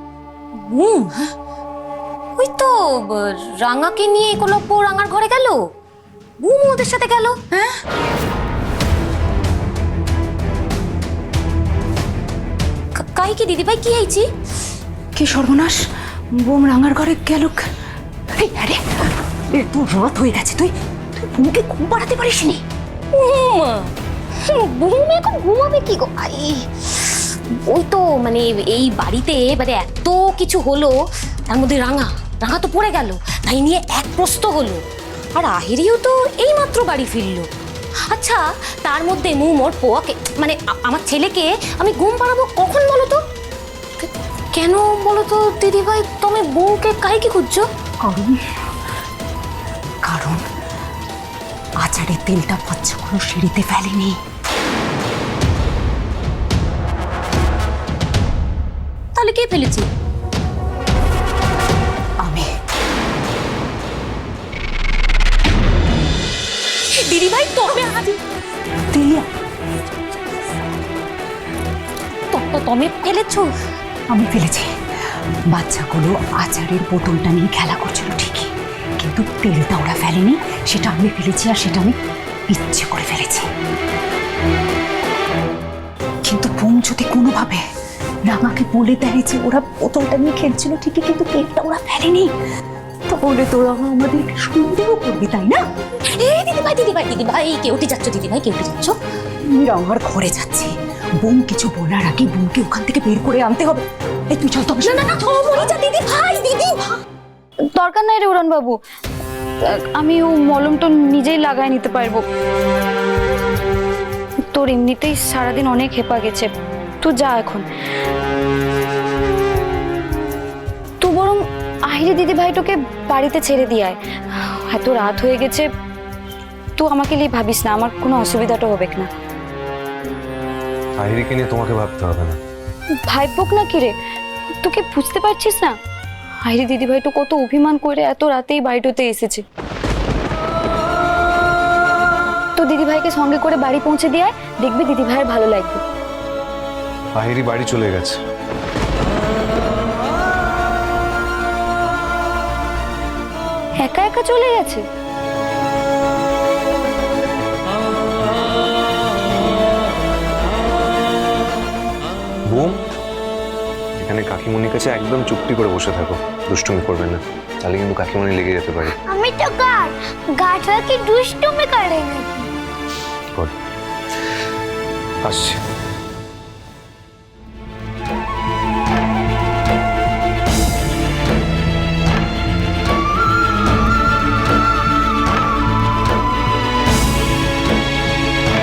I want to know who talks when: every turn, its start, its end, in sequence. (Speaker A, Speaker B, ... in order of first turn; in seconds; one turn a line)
Speaker A: 0.6-1.3
Speaker A: 2.4-5.6
Speaker A: 6.4-7.3
Speaker A: 12.9-14.2
Speaker B: 15.2-17.7
Speaker B: 18.4-22.6
Speaker A: 23.1-23.9
Speaker A: 24.4-30.9
Speaker A: 31.5-34.8
Speaker A: 35.3-37.5
Speaker A: 38.1-43.2
Speaker A: 44.0-47.6
Speaker B: 48.0-48.4
Speaker B: 50.0-50.4
Speaker B: 51.8-54.2
Speaker A: 59.1-59.9
Speaker B: 62.2-62.5
Speaker A: 66.9-68.2
Speaker B: 68.9-69.2
Speaker A: 72.3-73.5
Speaker B: 74.1-74.7
Speaker B: 75.5-82.0
Speaker B: 82.5-83.5
Speaker B: 86.2-87.6
Speaker B: 88.2-92.3
Speaker B: 93.1-95.6
Speaker A: 96.1-99.0
Speaker B: 99.5-105.1
Speaker A: 104.8-107.0
Speaker C: 107.7-108.8
Speaker C: 109.7-112.2
Speaker C: 114.5-116.5
Speaker C: 117.0-117.6
Speaker C: 121.0-125.7
Speaker C: 126.8-129.1
Speaker D: 131.0-132.4
Speaker C: 133.1-133.9
Speaker C: 134.6-135.7
Speaker C: 136.4-139.4
Speaker C: 142.6-145.8
Speaker D: 147.1-148.2
Speaker C: 153.8-154.8
Speaker D: 162.5-162.8
Speaker D: 164.0-168.9
Speaker E: 169.0-172.5
Speaker D: 175.2-175.6